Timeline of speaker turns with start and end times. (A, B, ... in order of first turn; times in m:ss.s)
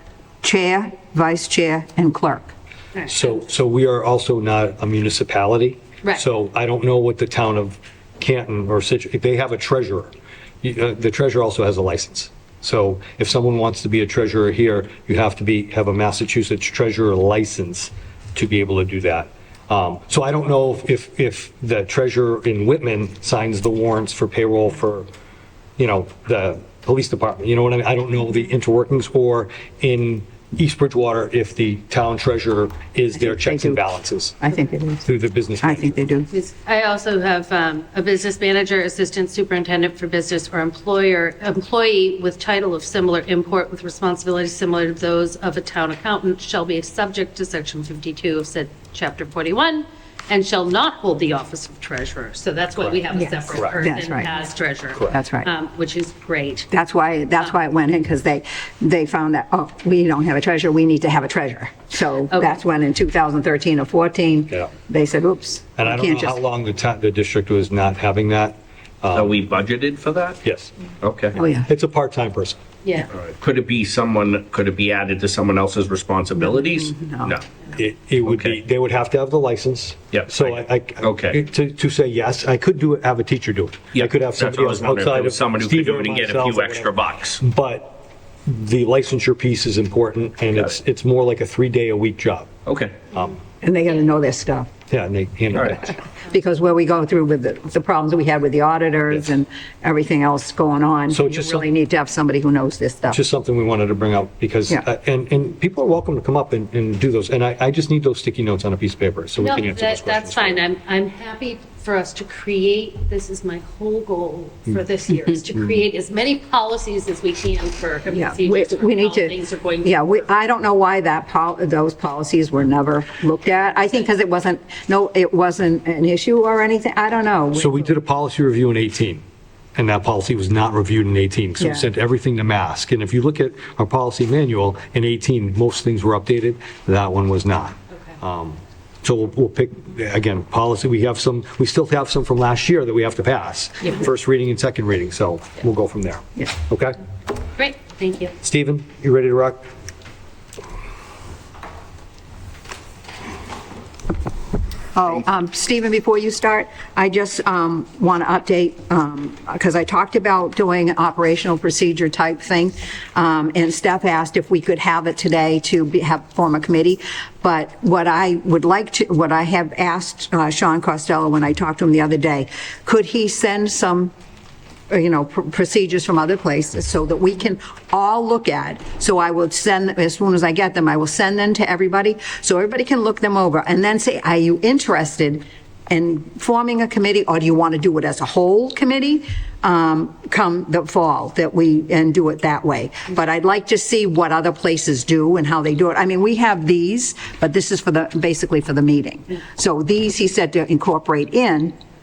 0:00.4-0:02.5 A
0:03.1-0:25.1 B
0:25.8-0:34.4 B
0:33.2-0:33.8 A
0:34.4-0:35.1 A
0:35.0-0:36.1 B
0:35.6-0:36.3 A
0:36.3-0:56.7 C
0:53.8-0:54.3 A
0:55.1-0:55.5 A
0:56.7-1:06.4 A
1:05.8-1:09.3 B
1:09.1-1:10.4 D
1:10.4-1:10.7 B
1:11.0-1:11.4 D
1:11.4-1:11.7 A
1:11.4-1:12.6 B
1:12.8-1:13.1 C
1:13.1-1:17.4 D
1:16.7-1:17.3 A
1:17.7-1:32.5 B
1:18.2-1:18.6 D
1:20.1-1:21.4 D
1:23.9-1:27.4 D
1:30.5-1:30.8 D
1:32.7-1:33.0 D
1:33.1-1:33.4 B
1:33.6-1:34.7 A
1:34.9-1:36.0 B
1:36.2-1:43.2 A
1:41.1-1:41.7 B
1:43.1-1:50.6 B
1:49.4-2:00.2 C
1:58.1-2:07.9 A
2:07.6-2:09.2 B
2:09.8-2:27.0 B
2:11.6-2:11.9 A
2:27.6-2:28.4 C
2:28.4-2:29.6 B
2:35.0-2:54.1 A
2:54.9-3:21.8 A